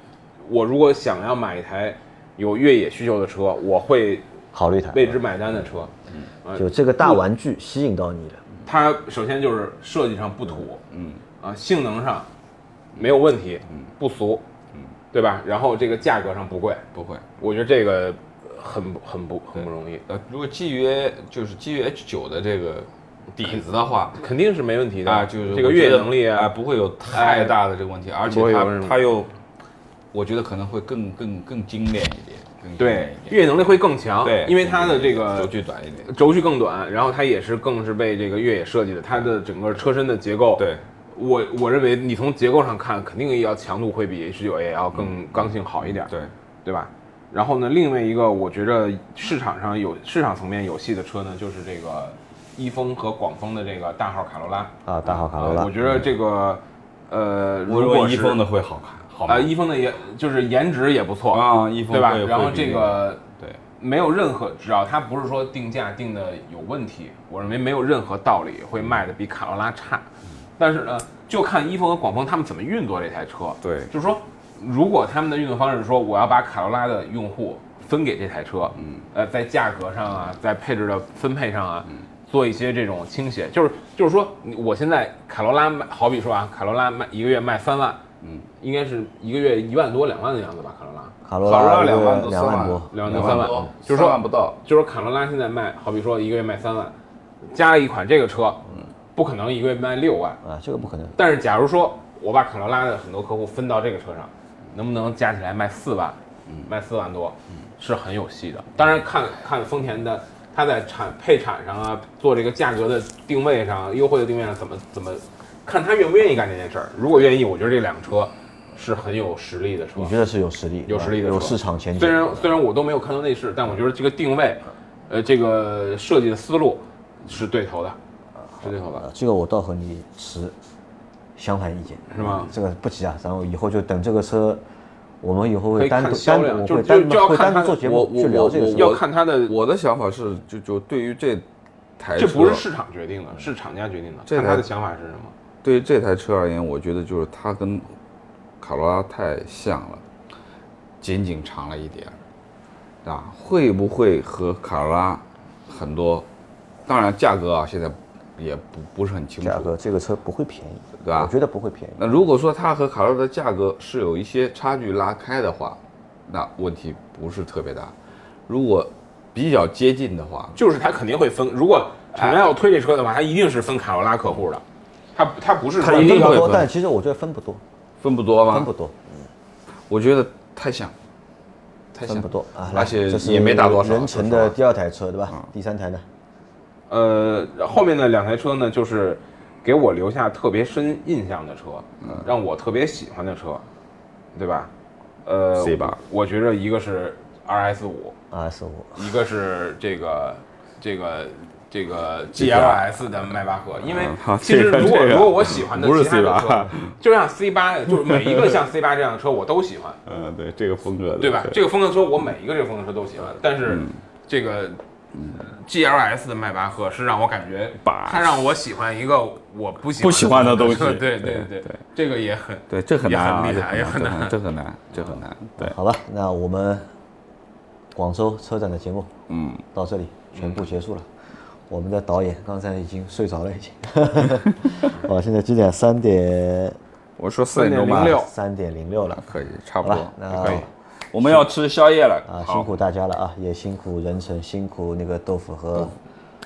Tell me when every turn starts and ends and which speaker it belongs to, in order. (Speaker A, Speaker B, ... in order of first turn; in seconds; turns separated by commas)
Speaker A: 0.4-4.3, Speaker B: 4.5-5.2, Speaker A: 4.9-5.9, Speaker A: 6.4-7.2, Speaker B: 6.6-8.4, Speaker A: 8.7-10.8, Speaker C: 10.9-11.2, Speaker A: 11.4-12.3, Speaker A: 12.9-14.4, Speaker A: 15.1-16.8, Speaker C: 16.9-17.3, Speaker A: 17.4-20.1, Speaker C: 20.1-24.2, Speaker A: 23.4-26.5, Speaker C: 25.1-29.3, Speaker A: 27.1-27.6, Speaker A: 28.2-29.0, Speaker C: 30.1-36.1, Speaker A: 32.8-35.5, Speaker A: 36.1-46.1, Speaker C: 40.6-40.8, Speaker C: 46.0-46.3, Speaker A: 46.6-54.7, Speaker B: 54.9-55.8, Speaker A: 55.4-58.4, Speaker C: 57.7-59.5, Speaker A: 59.1-63.2, Speaker C: 61.3-63.6, Speaker A: 63.8-70.0, Speaker A: 70.6-88.0, Speaker C: 73.6-73.9, Speaker C: 78.8-79.0, Speaker A: 88.6-91.2, Speaker B: 91.2-93.6, Speaker C: 91.4-94.6, Speaker A: 92.9-97.0, Speaker A: 97.5-100.4, Speaker B: 100.4-101.2, Speaker A: 101.2-120.2, Speaker B: 120.0-122.6, Speaker A: 120.9-128.0, Speaker A: 128.6-129.1, Speaker B: 128.9-130.6, Speaker B: 131.4-134.6, Speaker A: 132.1-132.5, Speaker B: 135.2-139.0, Speaker A: 135.8-137.8, Speaker C: 137.8-141.4, Speaker A: 138.7-139.6, Speaker C: 142.0-142.6, Speaker A: 142.2-145.3, Speaker C: 144.3-144.7, Speaker C: 145.6-147.9, Speaker C: 148.6-150.0, Speaker C: 151.0-152.2, Speaker C: 153.0-156.3, Speaker C: 156.9-159.7, Speaker B: 159.4-162.0, Speaker C: 161.0-161.3, Speaker C: 162.0-167.9, Speaker C: 168.5-170.6, Speaker A: 170.6-174.6, Speaker C: 172.2-172.4, Speaker A: 175.1-176.6, Speaker C: 175.8-176.7, Speaker B: 175.9-177.6, Speaker C: 178.0-178.7, Speaker B: 178.5-179.3, Speaker C: 179.9-180.9, Speaker C: 181.9-184.6, Speaker B: 182.0-186.0, Speaker A: 186.9-193.7, Speaker A: 194.3-194.7, Speaker A: 195.3-198.2, Speaker C: 195.6-196.0, Speaker B: 198.3-199.0, Speaker A: 199.0-210.0, Speaker C: 202.3-203.0, Speaker C: 203.8-206.9, Speaker C: 208.1-208.5, Speaker C: 210.1-211.6, Speaker A: 211.2-214.8, Speaker C: 213.7-214.0, Speaker C: 215.2-215.5, Speaker A: 215.3-224.4, Speaker C: 217.8-218.4, Speaker C: 220.0-221.8, Speaker C: 222.7-225.8, Speaker A: 224.9-225.2, Speaker B: 225.6-226.9, Speaker B: 227.9-229.1, Speaker C: 229.3-229.6, Speaker B: 229.7-231.1, Speaker A: 230.3-230.6, Speaker B: 231.7-236.8, Speaker C: 237.2-238.2, Speaker A: 237.5-238.3, Speaker B: 237.9-239.3, Speaker C: 239.2-242.7, Speaker B: 239.8-240.7, Speaker A: 240.3-240.6, Speaker B: 242.3-245.9